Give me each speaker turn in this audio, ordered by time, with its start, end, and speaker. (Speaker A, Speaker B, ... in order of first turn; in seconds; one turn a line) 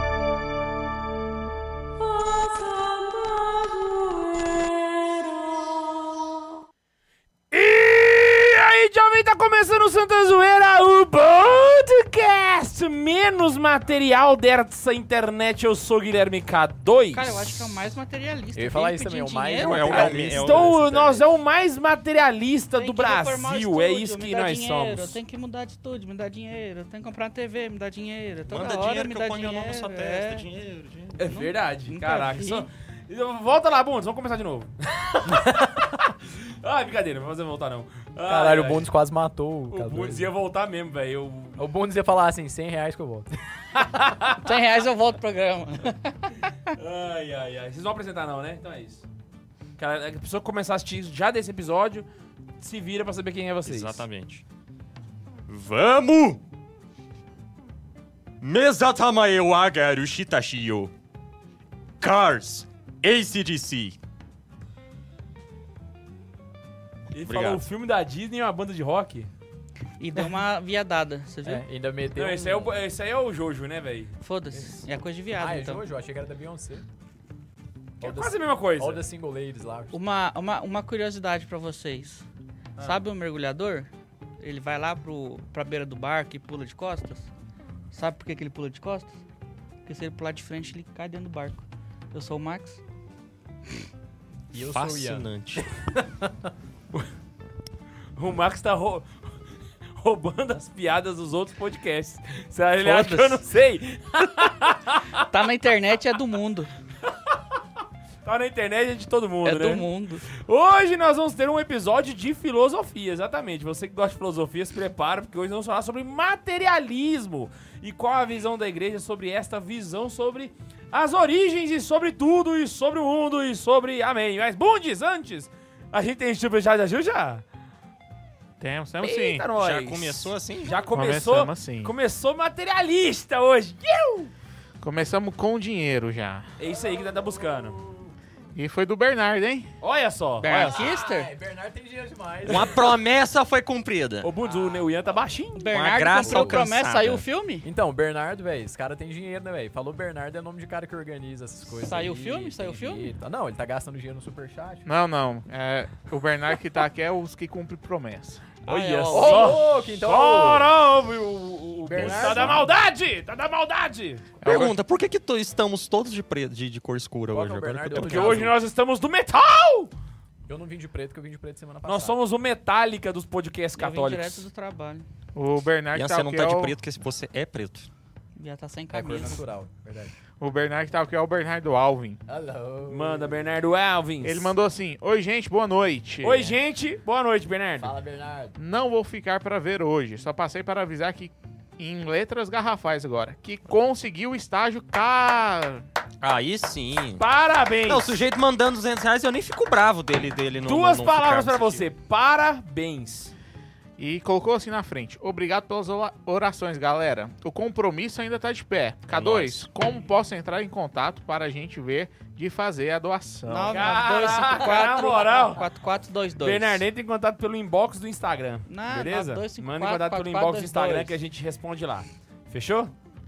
Speaker A: 2.1-5.7
Speaker A: 7.5-17.4
Speaker B: 17.1-20.1
Speaker C: 18.5-21.2
Speaker D: 19.6-21.1
Speaker A: 19.9-25.2
Speaker B: 22.7-30.4
Speaker D: 28.5-31.2
Speaker A: 31.2-38.9
Speaker B: 31.3-32.6
Speaker C: 35.3-35.9
Speaker C: 38.2-40.3
Speaker A: 39.7-41.6
Speaker C: 41.6-43.4
Speaker A: 43.8-44.4
Speaker B: 44.4-46.3
Speaker A: 46.7-49.0
Speaker A: 49.8-52.1
Speaker A: 52.6-54.0
Speaker D: 53.6-54.4
Speaker D: 55.5-56.4
Speaker D: 58.4-60.9
Speaker D: 62.0-64.0
Speaker A: 67.1-69.3
Speaker D: 67.2-67.6
Speaker B: 70.0-71.7
Speaker C: 71.4-72.8
Speaker A: 72.1-74.2
Speaker B: 74.2-75.8
Speaker C: 75.3-76.8
Speaker C: 78.0-80.0
Speaker A: 78.0-79.0
Speaker B: 79.9-82.2
Speaker B: 82.8-87.3
Speaker B: 87.9-89.2
Speaker B: 89.8-92.8
Speaker C: 94.5-95.3
Speaker D: 94.6-95.7
Speaker C: 95.8-96.5
Speaker A: 98.2-99.4
Speaker A: 99.9-105.2
Speaker B: 102.8-103.4
Speaker B: 105.1-106.7
Speaker A: 107.0-107.4
Speaker A: 108.2-127.4
Speaker B: 109.4-110.2
Speaker E: 128.6-129.5
Speaker A: 129.0-134.3
Speaker D: 129.6-130.8
Speaker E: 130.9-131.9
Speaker E: 134.8-136.5
Speaker A: 136.6-137.8
Speaker E: 138.5-139.7
Speaker A: 139.8-140.8
Speaker B: 140.4-141.3
Speaker C: 140.5-142.9
Speaker D: 142.4-144.3
Speaker A: 144.2-145.7
Speaker C: 144.4-144.9
Speaker B: 145.6-147.7
Speaker D: 145.7-147.2
Speaker C: 146.2-146.7
Speaker C: 147.6-154.8
Speaker B: 151.7-153.1
Speaker E: 154.8-158.6
Speaker B: 158.7-159.6
Speaker A: 158.7-164.2
Speaker C: 159.1-160.7
Speaker C: 161.8-162.6
Speaker E: 162.1-162.5
Speaker E: 164.4-164.7
Speaker D: 164.4-168.5
Speaker C: 167.3-168.5
Speaker A: 167.9-169.9
Speaker C: 170.5-172.2
Speaker A: 171.8-174.4
Speaker B: 173.8-175.1
Speaker E: 175.3-176.8
Speaker D: 175.9-177.9
Speaker B: 178.3-179.4
Speaker C: 178.9-180.1
Speaker E: 180.4-182.2
Speaker C: 182.3-183.3
Speaker A: 182.9-184.6
Speaker E: 184.2-186.6
Speaker A: 186.2-187.9
Speaker C: 187.8-188.6
Speaker E: 188.6-195.8
Speaker D: 196.2-197.2
Speaker A: 197.2-198.2
Speaker D: 197.8-201.9
Speaker A: 200.6-203.3
Speaker E: 204.0-214.0
Speaker D: 209.1-209.6
Speaker B: 213.5-216.8
Speaker A: 213.7-215.7
Speaker A: 216.4-222.9
Speaker B: 218.7-221.1